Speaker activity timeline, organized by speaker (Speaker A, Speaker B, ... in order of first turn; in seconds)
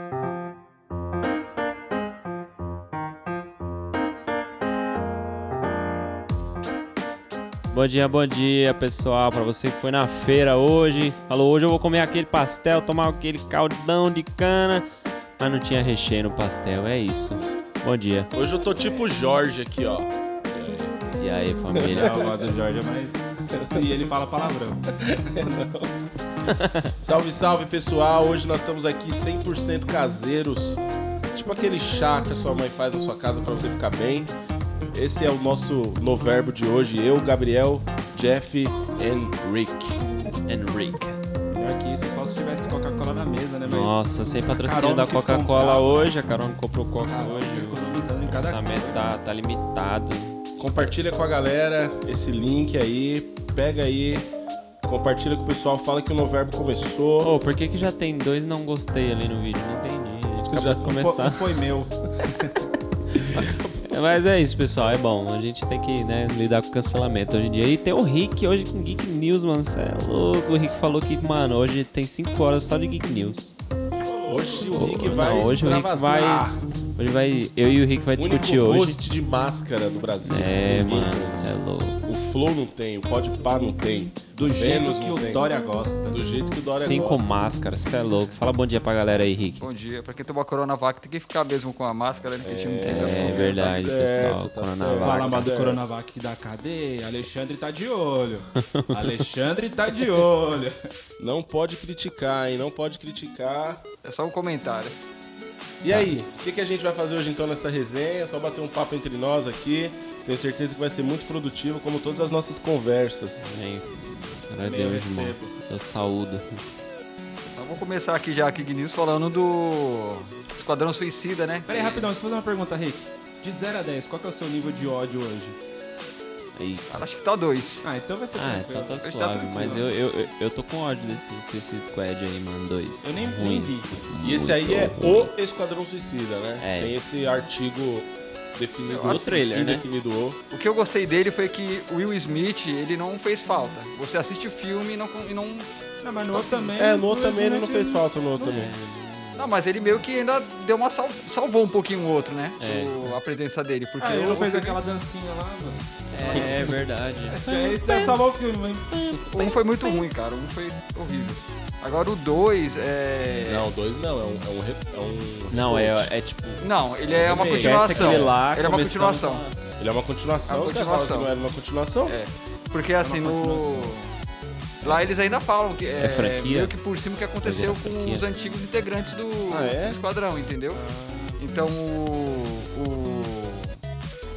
Speaker A: 7.7-14.8, 15.4-18.3, 21.2-22.4, 26.6-26.9, 40.5-41.2, 43.7-50.8, 57.2-61.7, 63.3-73.5, 74.7-79.0, 80.2-82.0, 86.8-89.6, 92.8-95.5, 98.7-99.2, 113.4-116.6, 126.5-127.0, 128.3-135.3, 136.6-136.9, 139.0-139.8, 148.4-149.5, 152.6-153.2, 156.1-158.2, 165.5-166.7, 167.3-169.5, 176.0-176.7, 177.4-178.2
Speaker B: 18.3-21.0, 21.7-22.5, 23.5-24.1, 25.0-25.9, 27.0-34.3, 34.9-40.0, 50.6-54.3, 54.8-57.3, 60.5-60.9, 74.3-76.6, 78.2-85.5, 86.1-87.2, 92.4-95.9, 101.2-103.8, 105.8-113.4, 134.2-140.4, 146.8-148.7, 156.3-156.7, 163.4-166.1, 167.1-168.4, 169.8-172.2, 179.5-180.0
Speaker C: 21.8-24.9, 41.5-46.1, 47.1-49.0, 60.8-62.7, 74.0-75.5, 84.3-86.2, 94.9-100.8, 114.6-115.5, 121.7-125.6, 127.8-129.0, 129.6-129.8, 133.0-133.9, 146.0-148.0, 154.0-158.9, 173.0-173.9, 180.7-181.4
Speaker D: 89.6-93.8, 104.0-105.0, 117.4-122.1, 126.9-127.8, 129.0-129.8, 138.9-139.2, 140.5-145.7, 146.3-146.7, 149.3-154.8, 159.3-163.7, 166.6-169.4, 170.5-171.3, 172.1-174.1, 174.8-180.8, 181.4-183.8